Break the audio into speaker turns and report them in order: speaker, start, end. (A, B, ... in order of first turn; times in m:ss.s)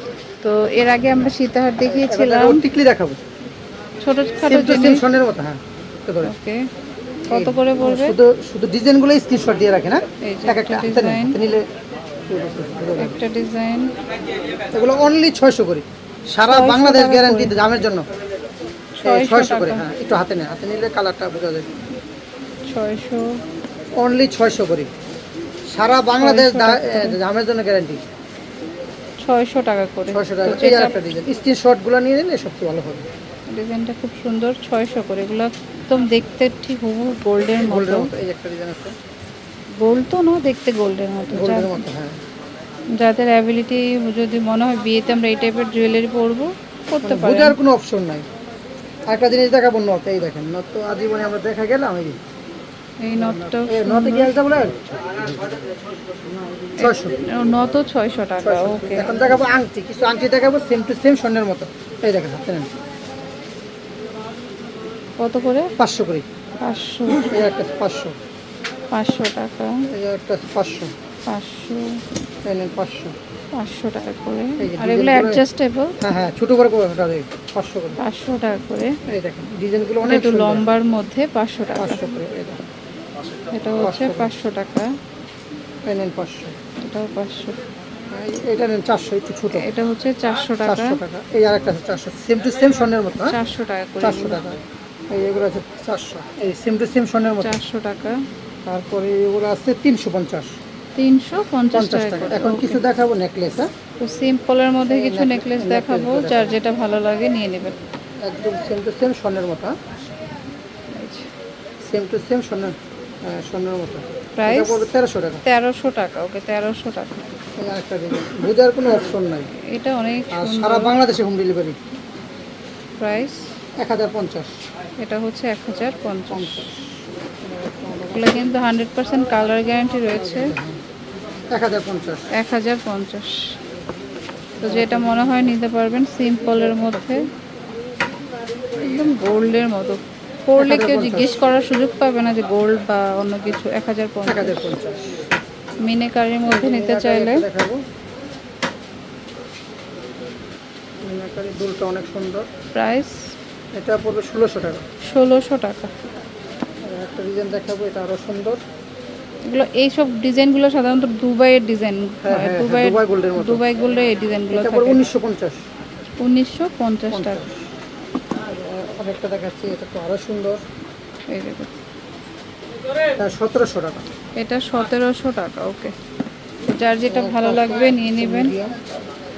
0:00.4-0:02.6 A
0:01.8-0:03.2 B
0:04.0-0:05.0 A
0:04.4-0:06.3 B
0:06.2-0:06.6 A
0:07.3-0:08.2 A
0:07.3-0:11.6 B
0:10.2-0:11.4 A
0:12.3-0:13.2 B
0:13.0-0:13.9 A
0:14.7-0:18.0 B
0:16.4-0:17.8 A
0:19.0-0:19.8 A
0:19.0-0:21.7 B
0:22.6-0:23.4 A
0:24.0-0:24.9 B
0:25.7-0:28.0 B
0:26.2-0:27.2 A
0:29.2-0:31.0 A
0:30.1-0:33.0 B
0:33.5-0:38.1 A
0:37.6-0:38.9 B
0:39.8-0:41.8 A
0:41.3-0:42.2 B
0:43.0-0:47.6 A
0:47.0-0:48.2 B
0:49.1-0:52.2 B
0:53.0-0:54.3 A
0:53.1-0:55.5 B
0:56.8-0:57.2 B
0:56.8-0:59.2 A
0:58.4-1:02.7 B
1:05.2-1:05.7 A
1:05.8-1:06.2 B
1:06.6-1:07.4 A
1:07.3-1:08.1 B
1:08.9-1:09.8 A
1:09.9-1:10.9 B
1:11.3-1:12.0 A
1:12.4-1:13.2 B
1:13.6-1:16.0 A
1:14.6-1:15.4 B
1:16.0-1:18.0 B
1:18.0-1:19.0 A
1:19.1-1:20.7 B
1:20.0-1:22.0 A
1:21.8-1:22.6 B
1:23.5-1:24.9 A
1:23.8-1:24.3 B
1:25.8-1:26.6 B
1:26.8-1:27.6 A
1:28.1-1:29.7 B
1:29.6-1:31.0 A
1:30.6-1:33.4 B
1:33.2-1:34.4 A
1:34.0-1:37.6 B
1:37.4-1:38.2 A
1:38.6-1:40.5 B
1:41.0-1:42.8 A
1:41.7-1:43.7 B
1:44.0-1:47.8 A
1:44.9-1:46.6 B
1:48.2-1:49.7 B
1:50.9-1:51.3 A
1:51.8-1:52.7 B
1:53.2-1:55.4 B
1:54.4-1:54.9 A
1:55.4-1:57.3 A
1:57.6-1:59.5 B
1:59.6-2:01.0 A
2:00.3-2:01.8 B
2:03.0-2:03.4 A
2:03.8-2:04.5 B
2:05.0-2:06.6 A
2:06.3-2:08.4 B
2:08.1-2:10.5 A
2:10.1-2:10.8 B
2:11.5-2:12.3 B
2:12.3-2:13.4 A
2:14.6-2:15.5 B
2:14.6-2:17.3 A
2:16.6-2:17.1 B
2:18.8-2:24.7 A
2:20.6-2:21.4 B
2:24.2-2:25.2 B
2:25.8-2:27.4 A
2:26.4-2:27.8 B
2:31.0-2:32.4 B
2:32.7-2:33.3 A
2:33.8-2:34.8 B
2:35.0-2:35.9 A
2:36.8-2:38.6 B
2:39.5-2:45.0 A
2:42.2-2:43.6 B
2:44.5-2:45.6 B
2:46.2-2:47.4 A
2:47.1-2:47.6 B
2:48.4-2:50.6 B
2:51.3-2:51.8 A
2:53.2-2:54.1 B
2:54.4-2:55.9 A
2:56.6-2:58.6 A
2:57.1-2:58.7 B